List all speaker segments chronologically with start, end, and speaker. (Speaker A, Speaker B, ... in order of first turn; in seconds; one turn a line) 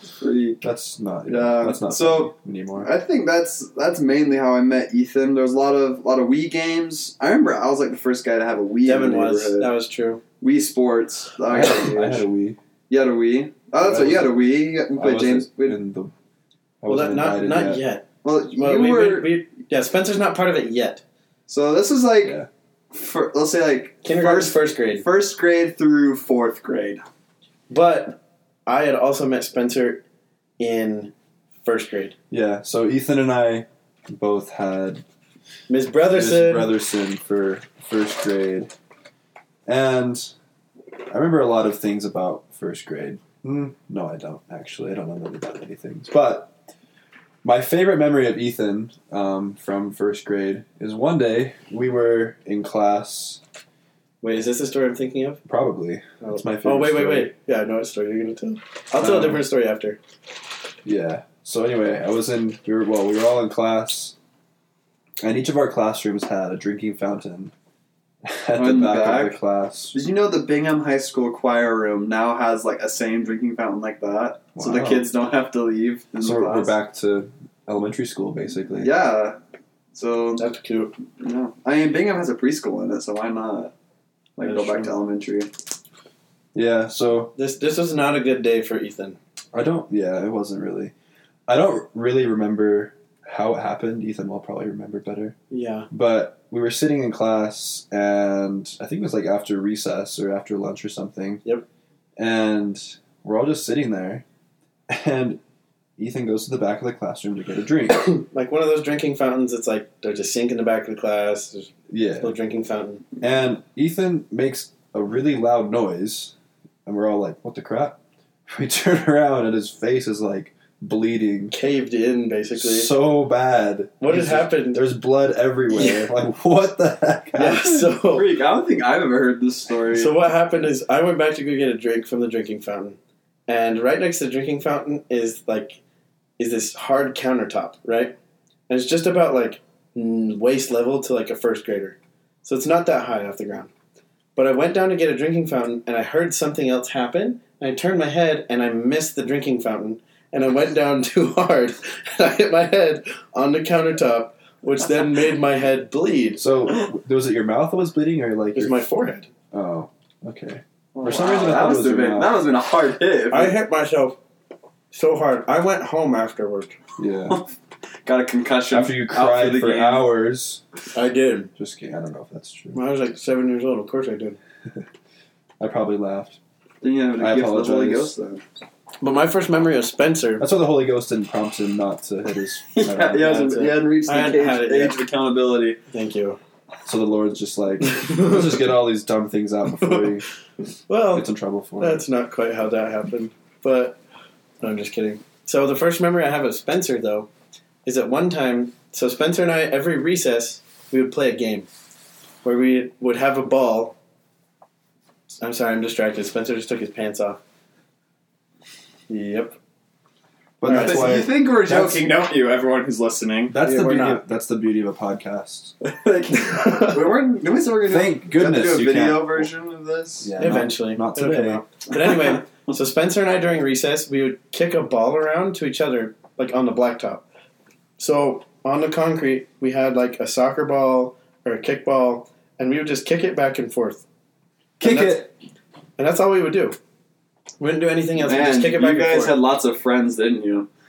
Speaker A: 0.2-0.6
Speaker B: 0.6-2.9
Speaker A: 1.3-9.7
Speaker C: 8.8-10.2
Speaker A: 10.4-12.2
Speaker B: 11.5-12.6
Speaker A: 12.9-15.8
Speaker B: 13.8-16.1
Speaker B: 16.8-17.8
Speaker C: 16.9-21.0
Speaker A: 18.2-19.4
Speaker A: 21.5-22.4
Speaker B: 22.2-22.5
Speaker A: 22.9-27.0
Speaker C: 24.0-25.1
Speaker C: 27.7-30.0
Speaker C: 30.6-32.1
Speaker B: 32.3-35.0
Speaker C: 35.7-36.8
Speaker B: 36.1-38.7
Speaker B: 39.6-40.3
Speaker B: 41.1-46.5
Speaker B: 47.4-53.4
Speaker C: 54.2-55.4
Speaker B: 55.5-57.3
Speaker C: 56.2-60.0
Speaker B: 59.0-59.4
Speaker B: 60.8-64.1
Speaker B: 65.2-67.5
Speaker B: 68.2-70.0
Speaker A: 68.5-69.4
Speaker A: 69.9-76.7
Speaker B: 74.5-75.1
Speaker B: 76.2-78.9
Speaker A: 78.8-79.4
Speaker A: 79.9-80.4
Speaker C: 80.4-81.0
Speaker A: 81.2-83.7
Speaker A: 84.4-85.5
Speaker C: 84.4-84.9
Speaker B: 86.5-87.3
Speaker C: 87.4-89.2
Speaker B: 89.5-90.9
Speaker B: 91.5-95.4
Speaker C: 95.5-95.9
Speaker B: 95.9-101.4
Speaker B: 102.2-104.2
Speaker B: 104.9-105.4
Speaker B: 106.0-108.0
Speaker C: 108.0-113.0
Speaker B: 111.9-112.3
Speaker B: 113.2-116.3
Speaker B: 116.9-121.5
Speaker C: 121.5-122.9
Speaker B: 122.5-127.9
Speaker C: 124.0-124.8
Speaker C: 125.7-126.1
Speaker C: 127.3-128.3
Speaker A: 128.0-130.1
Speaker C: 129.9-133.0
Speaker C: 133.5-135.8
Speaker C: 136.4-138.1
Speaker C: 138.7-143.7
Speaker C: 144.4-156.4
Speaker B: 156.4-158.8
Speaker C: 158.5-159.3
Speaker B: 159.5-162.4
Speaker A: 160.9-163.5
Speaker C: 163.3-164.2
Speaker C: 164.9-166.8
Speaker B: 167.0-167.4
Speaker A: 168.0-170.1
Speaker B: 168.7-170.6
Speaker C: 170.9-171.5
Speaker B: 171.6-172.8
Speaker C: 172.7-174.4
Speaker B: 175.6-176.4
Speaker A: 176.8-178.4
Speaker B: 177.2-178.1
Speaker C: 179.0-180.5
Speaker B: 180.4-183.3
Speaker A: 182.7-185.8
Speaker C: 183.1-185.0
Speaker C: 185.9-186.4
Speaker B: 186.9-190.2
Speaker C: 190.9-194.0
Speaker B: 191.1-192.0
Speaker C: 194.6-197.3
Speaker C: 197.8-201.7
Speaker C: 202.4-204.0
Speaker C: 205.4-207.4
Speaker C: 209.1-209.6
Speaker B: 210.6-212.1
Speaker C: 210.6-211.2
Speaker A: 210.7-213.6
Speaker B: 213.5-215.7
Speaker C: 213.6-214.2
Speaker A: 215.8-220.3
Speaker C: 216.5-217.0
Speaker B: 217.9-219.5
Speaker B: 220.2-221.6
Speaker C: 220.4-227.2
Speaker C: 228.0-234.0
Speaker B: 234.8-235.2
Speaker A: 234.8-235.2
Speaker C: 234.8-235.2
Speaker C: 236.0-236.8
Speaker C: 237.6-239.4
Speaker A: 238.2-240.7